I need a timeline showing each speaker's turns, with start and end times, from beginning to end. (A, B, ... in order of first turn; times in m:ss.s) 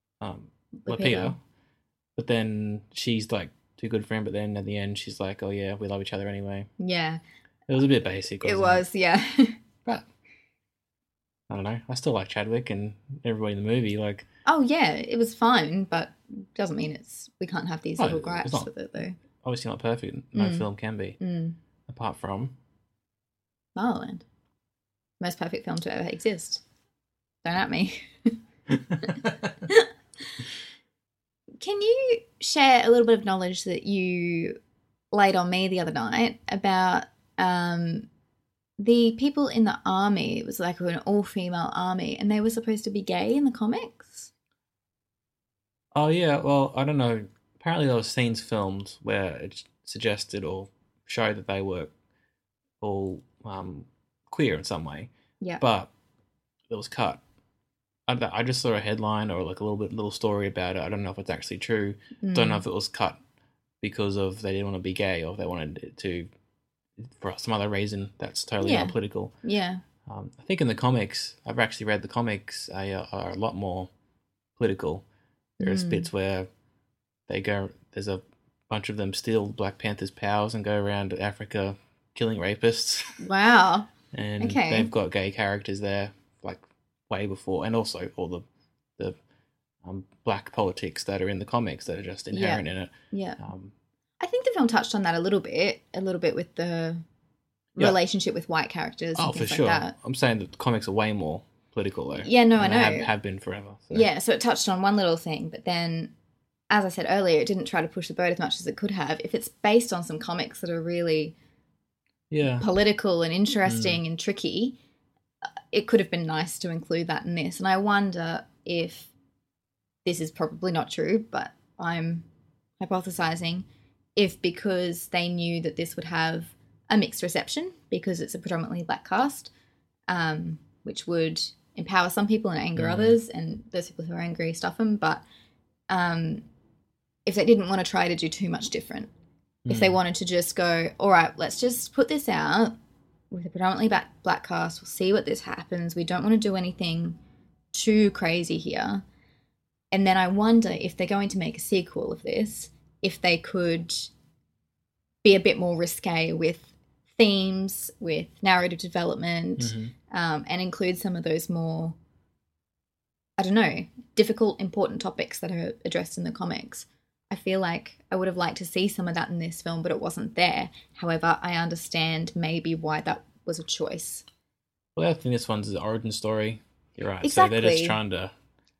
0:00.2-0:01.4 A
0:00.8-0:01.4 B
0:02.2-0:06.7 A
0:06.8-0:07.2 B
0:07.7-0:08.8 A
0:08.4-0:09.6 B
0:11.5-0:14.2 A
0:14.5-0:19.2 B
0:18.0-0:18.7 A
0:19.4-0:21.2 A
0:20.4-0:20.7 B
0:21.2-0:21.6 B
0:21.9-0:22.5 A
0:23.8-0:24.2 B
0:25.2-0:26.6 B
0:27.4-0:28.4 B
0:29.0-0:29.3 A
0:31.6-0:34.6 B
0:35.1-0:38.1 B
0:38.8-0:44.3 B
0:45.9-0:51.9 A
0:52.8-0:55.9 A
0:56.7-0:57.2 A
0:58.1-1:03.2 A
1:02.2-1:02.6 B
1:03.8-1:06.3 A
1:07.0-1:09.3 A
1:08.6-1:09.8 B
1:10.0-1:13.9 A
1:14.6-1:15.0 A
1:15.6-1:16.1 B
1:15.6-1:16.5 A
1:17.3-1:23.2 A
1:23.2-1:24.9 B
1:24.1-1:28.4 A
1:29.8-1:33.7 A
1:32.3-1:33.4 B
1:34.2-1:37.0 B
1:37.8-1:39.9 B
1:39.2-1:44.1 A
1:42.2-1:43.1 B
1:43.9-1:46.1 B
1:46.7-1:51.4 B
1:52.3-1:52.6 A
1:52.6-1:54.8 B
1:53.6-1:54.0 A
1:55.7-1:59.1 B
2:00.0-2:02.2 B
2:02.8-2:09.5 B
2:10.1-2:15.2 B
2:12.8-2:13.2 A
2:15.9-2:16.4 B
2:17.2-2:19.1 B
2:19.6-2:20.0 A
2:19.7-2:22.8 B
2:23.3-2:27.2 B
2:27.7-2:29.0 B
2:29.9-2:34.1 B
2:35.2-2:42.0 B
2:39.6-2:39.9 A
2:43.4-2:54.2 B
2:55.0-2:58.3 A
2:57.2-2:58.0 B